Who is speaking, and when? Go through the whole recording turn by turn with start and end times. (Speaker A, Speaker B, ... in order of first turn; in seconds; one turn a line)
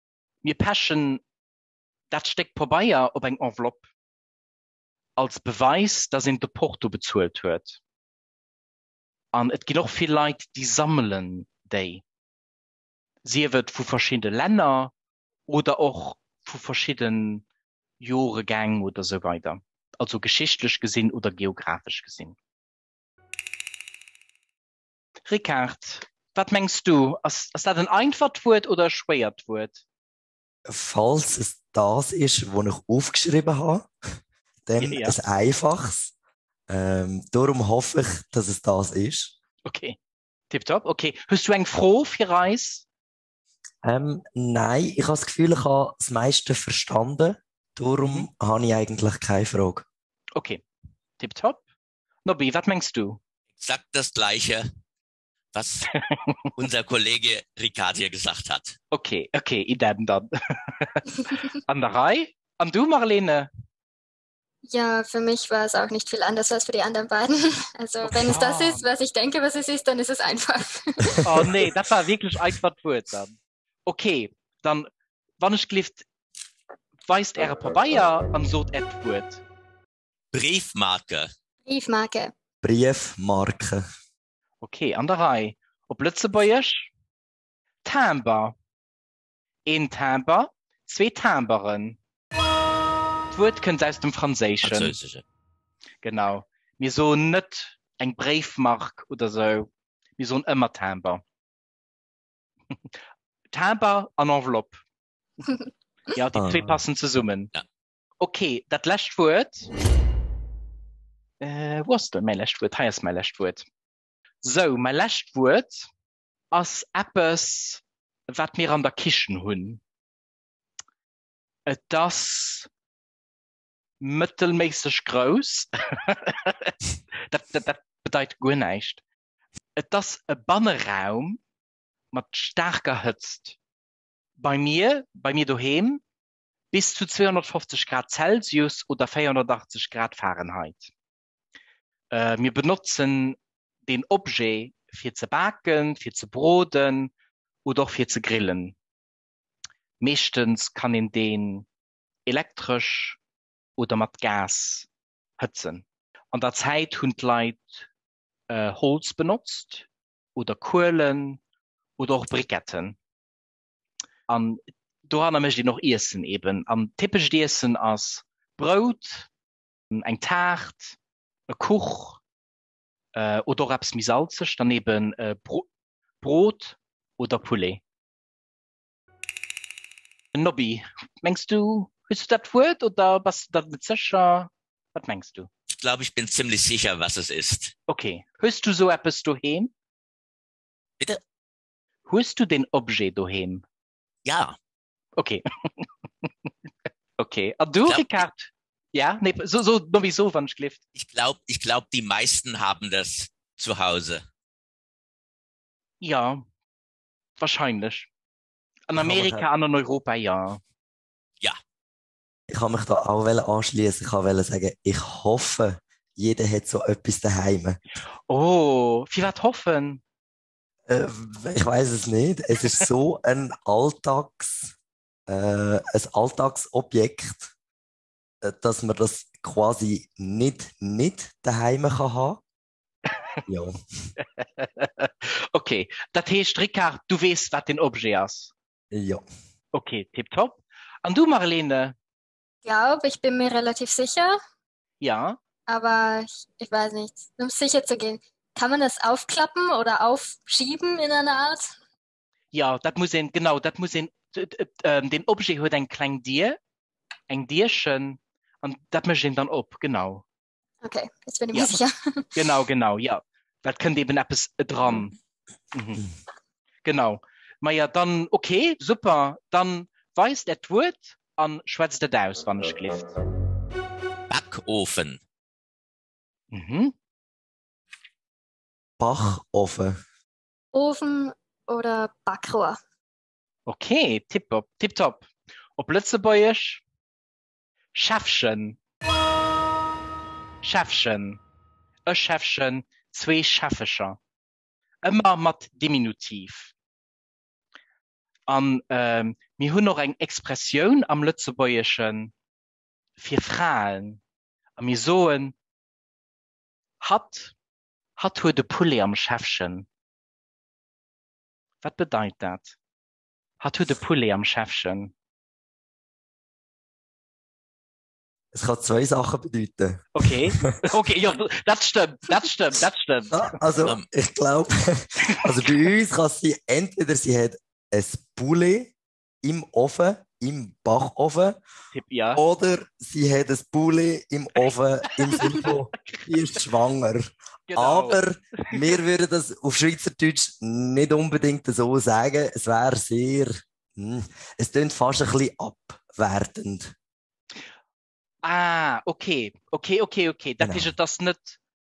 Speaker A: 0.4-1.2
Speaker A: 2.1-3.9
Speaker A: 5.2-7.8
Speaker A: 9.3-12.0
Speaker A: 13.2-14.9
Speaker A: 15.5-17.4
Speaker A: 18.0-22.4
Speaker A: 25.3-29.8
Speaker B: 30.7-33.9
Speaker B: 34.6-36.1
Speaker A: 34.8-35.2
Speaker B: 36.7-39.3
Speaker A: 39.6-40.0
Speaker A: 40.5-42.9
Speaker B: 43.8-49.9
Speaker A: 48.0-48.3
Speaker A: 50.4-50.6
Speaker A: 51.2-51.6
Speaker A: 52.2-53.2
Speaker C: 53.6-54.6
Speaker C: 55.5-55.9
Speaker C: 56.5-58.8
Speaker A: 58.9-63.5
Speaker D: 64.6-71.2
Speaker A: 68.0-68.9
Speaker A: 71.2-74.9
Speaker A: 75.4-76.1
Speaker A: 77.1-79.4
Speaker C: 80.3-81.3
Speaker D: 81.7-82.3
Speaker B: 82.6-83.8
Speaker A: 84.6-86.9
Speaker A: 87.8-88.5
Speaker A: 89.7-92.0
Speaker A: 93.3-95.0
Speaker C: 94.6-95.2
Speaker A: 96.0-101.2
Speaker A: 103.5-104.8
Speaker A: 106.1-107.5
Speaker B: 106.3-106.8
Speaker A: 108.2-109.7
Speaker A: 111.4-113.6
Speaker A: 114.4-115.9
Speaker A: 116.5-119.8
Speaker A: 121.7-122.7
Speaker A: 124.0-126.7
Speaker A: 127.3-129.0
Speaker A: 129.8-131.4
Speaker A: 132.1-133.6
Speaker A: 134.4-136.0
Speaker A: 136.7-140.9
Speaker A: 142.1-147.1
Speaker A: 147.7-148.8
Speaker A: 150.0-151.7
Speaker A: 152.2-153.2
Speaker A: 153.8-154.9
Speaker A: 155.4-157.9
Speaker A: 158.5-161.4
Speaker A: 162.0-163.0
Speaker A: 164.3-169.3
Speaker A: 169.9-171.0
Speaker A: 171.5-172.2
Speaker A: 173.1-175.7
Speaker A: 176.2-177.8
Speaker A: 180.3-185.5
Speaker C: 185.8-187.8
Speaker A: 187.9-189.7
Speaker A: 192.1-193.6
Speaker C: 194.2-194.6
Speaker A: 195.2-196.3
Speaker A: 197.2-200.8
Speaker C: 197.9-198.2
Speaker C: 200.9-204.2
Speaker A: 206.0-206.4
Speaker A: 207.4-208.1
Speaker A: 208.9-210.6
Speaker B: 209.0-209.4
Speaker B: 212.5-217.8
Speaker A: 218.3-220.0
Speaker B: 220.9-224.7
Speaker B: 225.3-227.5
Speaker B: 228.4-232.4
Speaker B: 233.5-233.8
Speaker A: 234.2-238.5
Speaker B: 238.9-239.2
Speaker A: 239.7-241.9
Speaker D: 242.6-244.4
Speaker A: 245.0-245.4
Speaker D: 245.7-251.7
Speaker A: 252.5-256.6
Speaker A: 257.3-260.2
Speaker D: 260.8-262.2
Speaker A: 261.5-261.8
Speaker A: 262.4-265.1
Speaker A: 265.7-266.0
Speaker A: 266.9-273.2
Speaker C: 274.3-275.2
Speaker A: 276.5-276.9
Speaker B: 279.0-280.0
Speaker D: 280.7-282.8
Speaker A: 283.7-286.8
Speaker A: 288.0-288.8
Speaker A: 290.6-291.4
Speaker A: 292.1-294.2
Speaker A: 295.0-296.7
Speaker A: 298.5-302.3
Speaker A: 303.2-304.2
Speaker A: 304.8-305.5
Speaker A: 307.0-307.5
Speaker A: 308.2-309.9
Speaker A: 311.8-312.8
Speaker A: 313.6-315.1
Speaker B: 318.5-320.1
Speaker A: 320.1-323.3
Speaker B: 323.3-331.6
Speaker A: 331.9-332.4
Speaker B: 332.4-337.2
Speaker A: 335.5-336.2
Speaker A: 337.7-338.7
Speaker B: 337.8-346.9
Speaker A: 348.4-351.6
Speaker B: 350.6-350.9